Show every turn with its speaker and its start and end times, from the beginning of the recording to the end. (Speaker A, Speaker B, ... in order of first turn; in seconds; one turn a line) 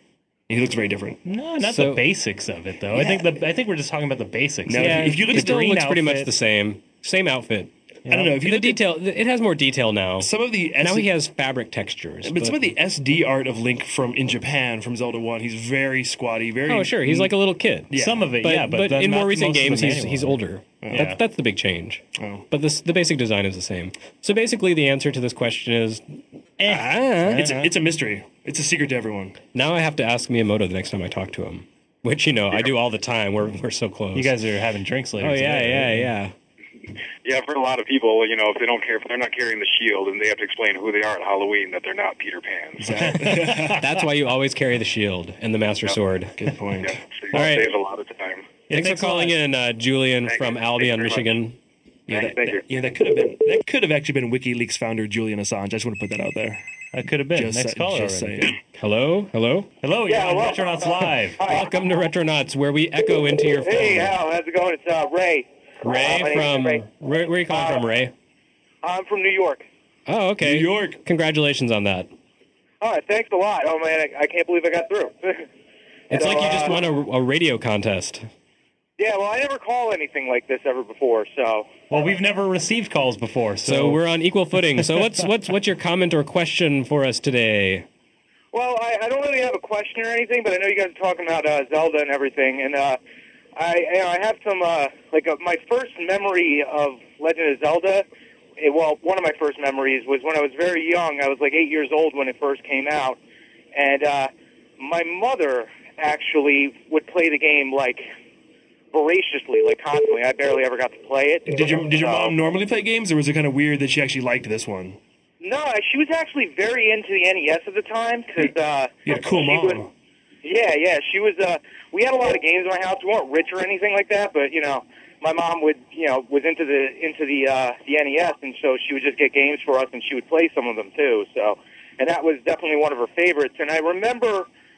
Speaker A: 0.5-1.2
Speaker B: 1.2-6.3
Speaker C: 1.6-2.0
Speaker A: 2.9-3.3
Speaker A: 4.7-5.7
Speaker C: 4.8-7.7
Speaker B: 8.1-8.4
Speaker A: 8.1-8.8
Speaker C: 8.3-12.7
Speaker A: 10.2-11.1
Speaker A: 12.2-17.3
Speaker C: 16.7-26.0
Speaker A: 17.9-18.3
Speaker B: 17.9-20.4
Speaker A: 20.8-21.1
Speaker B: 20.9-21.2
Speaker A: 22.1-22.4
Speaker B: 26.6-27.7
Speaker C: 26.6-27.5
Speaker A: 27.3-29.4
Speaker C: 29.5-34.4
Speaker B: 34.1-36.1
Speaker C: 35.2-36.3
Speaker D: 37.2-43.1
Speaker A: 42.8-43.8
Speaker B: 43.1-43.8
Speaker C: 43.6-46.4
Speaker A: 46.4-47.0
Speaker D: 46.8-48.6
Speaker C: 47.3-47.7
Speaker B: 48.7-49.4
Speaker C: 48.7-51.6
Speaker D: 50.2-51.3
Speaker A: 52.1-56.6
Speaker D: 52.1-52.6
Speaker B: 56.9-58.5
Speaker A: 57.3-58.6
Speaker C: 58.8-59.7
Speaker B: 59.8-61.4
Speaker E: 60.1-61.7
Speaker C: 61.4-64.2
Speaker E: 63.6-66.8
Speaker C: 65.8-68.1
Speaker E: 67.5-67.8
Speaker E: 68.8-69.7
Speaker C: 70.1-72.1
Speaker A: 70.4-71.0
Speaker E: 72.8-75.5
Speaker C: 76.1-78.3
Speaker E: 76.1-76.8
Speaker E: 79.0-81.8
Speaker B: 81.9-84.0
Speaker C: 83.6-87.8
Speaker B: 84.7-85.0
Speaker E: 88.5-93.0
Speaker E: 93.5-98.0
Speaker E: 98.6-103.2
Speaker E: 103.7-108.0
Speaker E: 108.9-112.3
Speaker A: 111.5-115.0
Speaker E: 115.4-119.8
Speaker A: 119.0-119.9
Speaker E: 120.4-134.5